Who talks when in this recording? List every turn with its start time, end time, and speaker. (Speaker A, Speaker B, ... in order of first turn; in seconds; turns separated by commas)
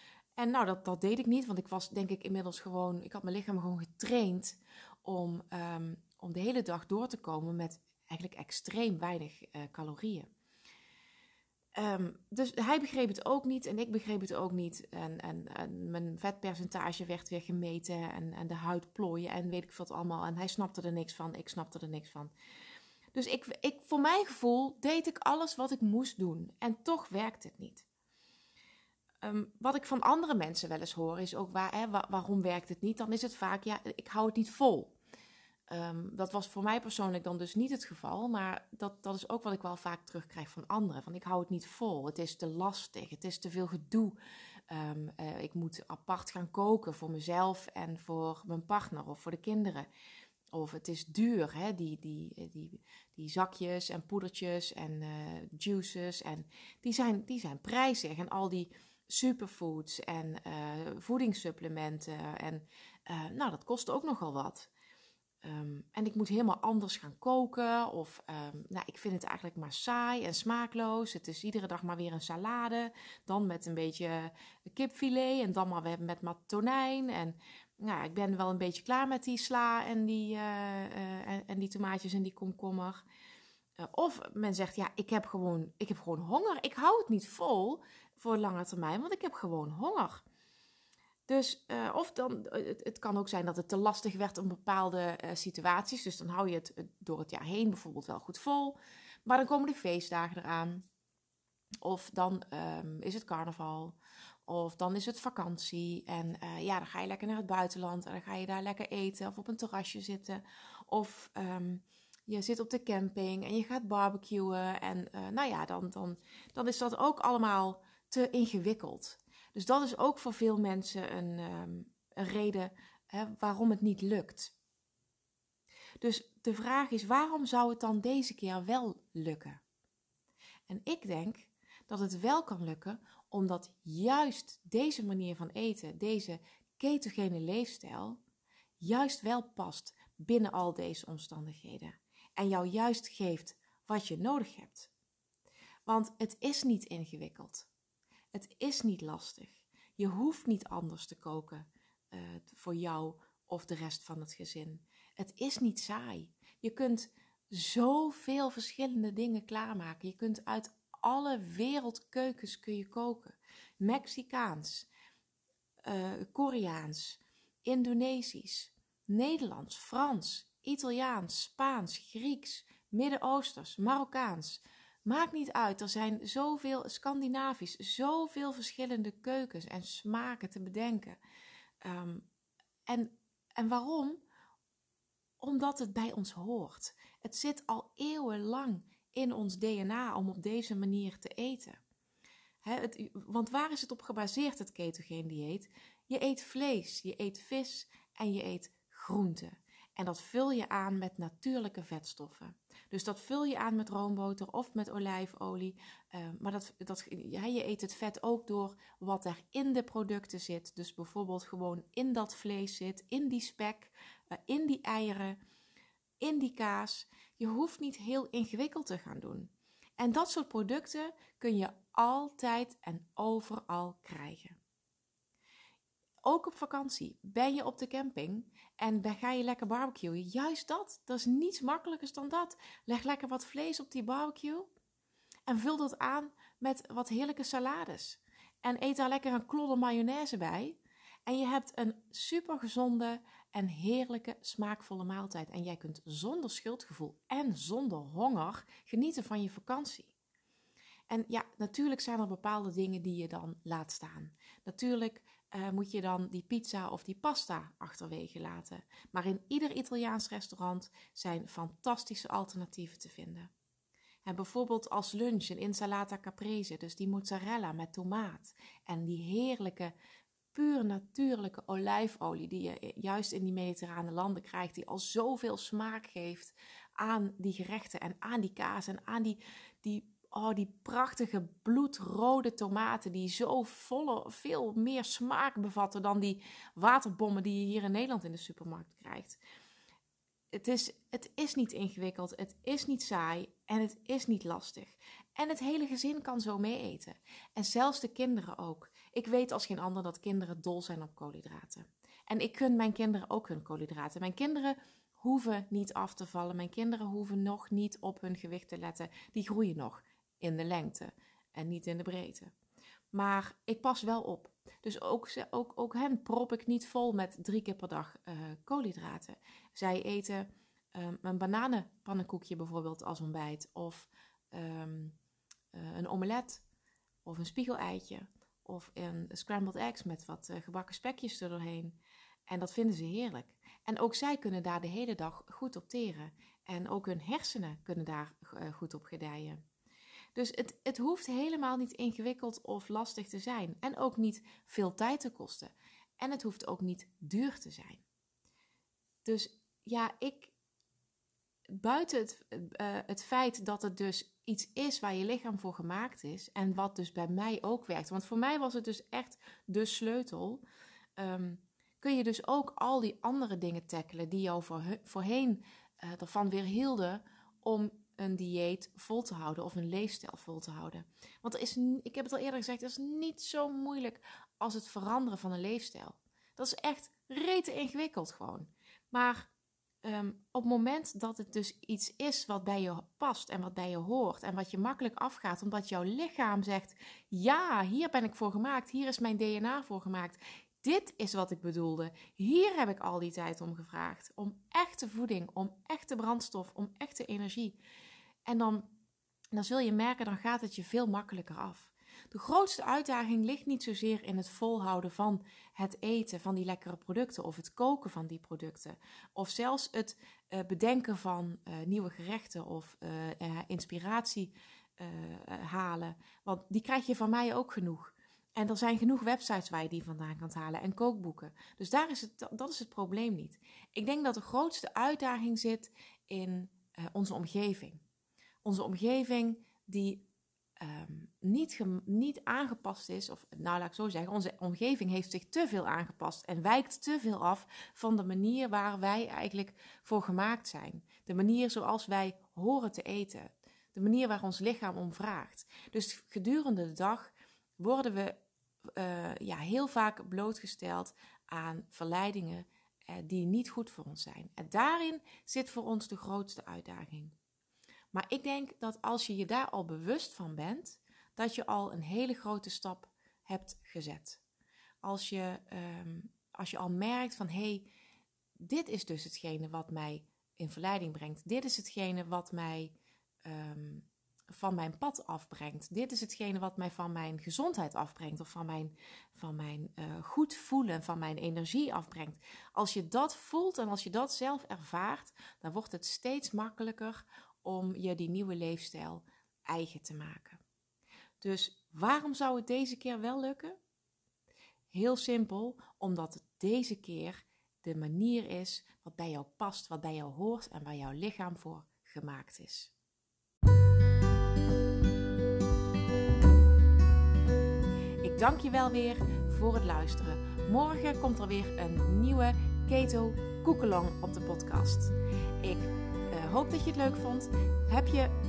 Speaker A: 0.4-10.3, Speaker A: 11.8-22.3, Speaker A: 23.1-27.9, Speaker A: 29.2-35.0, Speaker A: 35.7-44.2, Speaker A: 44.7-49.9, Speaker A: 50.5-64.7, Speaker A: 65.4-83.0, Speaker A: 83.8-90.2, Speaker A: 91.3-100.8, Speaker A: 101.8-124.5, Speaker A: 126.0-129.6, Speaker A: 130.7-138.2, Speaker A: 138.8-144.9, Speaker A: 145.9-147.7, Speaker A: 148.3-164.9, Speaker A: 165.8-181.2, Speaker A: 181.8-182.3, Speaker A: 182.9-184.2, Speaker A: 185.4-191.8, Speaker A: 192.6-213.9, Speaker A: 214.5-215.4, Speaker A: 216.2-224.6, Speaker A: 226.2-234.7, Speaker A: 235.5-250.1, Speaker A: 251.1-263.5, Speaker A: 264.2-269.9, Speaker A: 270.5-289.4, Speaker A: 290.5-312.5, Speaker A: 313.1-325.2, Speaker A: 325.7-326.6, Speaker A: 327.2-332.0, Speaker A: 332.5-339.6, Speaker A: 340.4-348.0, Speaker A: 349.2-350.5, Speaker A: 351.7-360.6, Speaker A: 361.2-379.5, Speaker A: 380.0-397.8, Speaker A: 398.5-398.9, Speaker A: 399.5-428.0, Speaker A: 428.6-430.3, Speaker A: 430.8-448.4, Speaker A: 448.9-457.4, Speaker A: 458.1-464.4, Speaker A: 465.0-467.9, Speaker A: 468.6-490.6, Speaker A: 491.4-493.8, Speaker A: 494.9-502.9, Speaker A: 508.2-518.3